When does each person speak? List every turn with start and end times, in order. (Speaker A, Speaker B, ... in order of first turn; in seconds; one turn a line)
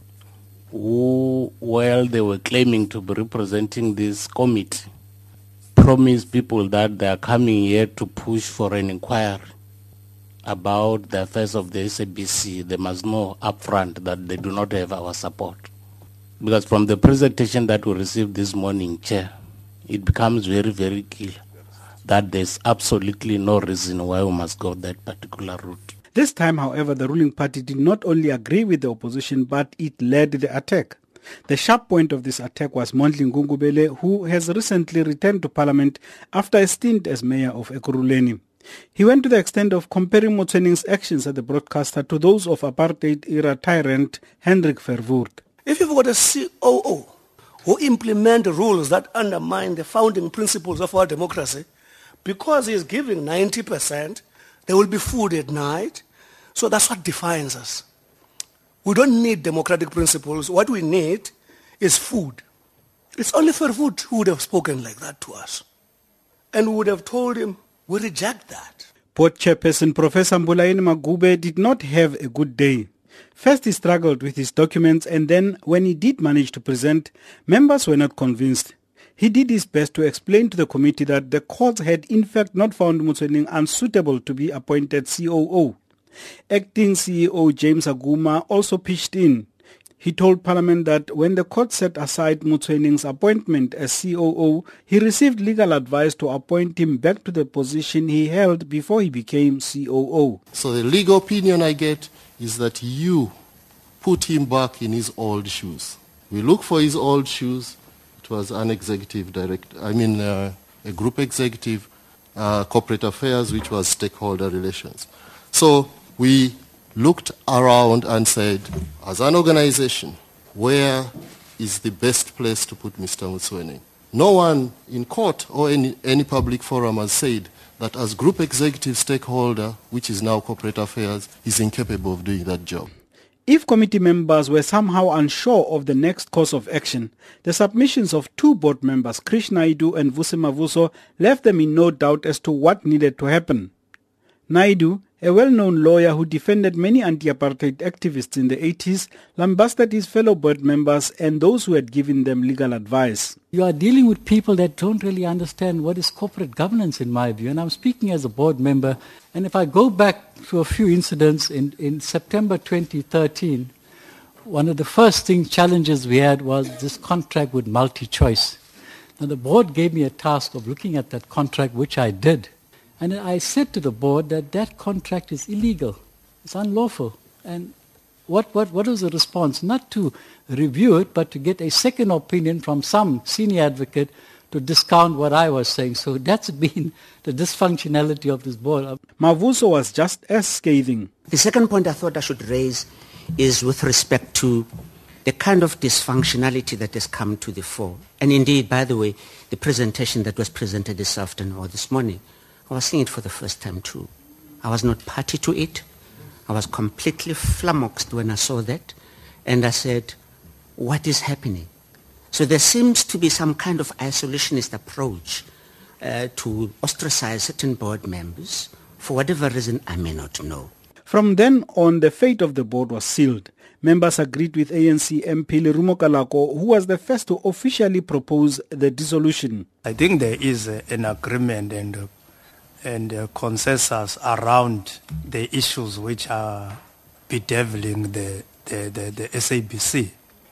Speaker A: 0.7-4.8
Speaker A: 5.8-9.4
Speaker A: 10.4-15.7
Speaker A: 16.4-19.3
Speaker A: 19.9-21.4
Speaker A: 22.0-25.9
Speaker B: 26.1-38.4
Speaker B: 38.9-45.4
Speaker C: 45.6-47.1
Speaker C: 47.6-51.6
Speaker C: 52.2-56.0
Speaker C: 56.5-57.8
Speaker C: 58.8-62.4
Speaker C: 63.2-65.6
Speaker C: 66.5-68.9
Speaker B: 69.1-85.8
Speaker B: 86.5-89.5
Speaker B: 90.0-100.4
Speaker D: 100.5-103.3
Speaker D: 104.0-132.9
Speaker B: 133.5-143.7
Speaker B: 144.5-153.4
Speaker E: 153.5-163.7
Speaker E: 164.4-168.6
Speaker E: 169.2-177.7
Speaker E: 178.3-189.0
Speaker B: 189.2-191.1
Speaker F: 191.3-194.7
Speaker F: 195.2-204.1
Speaker F: 204.6-205.9
Speaker F: 206.5-210.2
Speaker F: 210.8-211.7
Speaker F: 212.3-215.5
Speaker F: 216.0-220.7
Speaker B: 221.1-229.7
Speaker G: 229.8-232.1
Speaker G: 232.8-240.1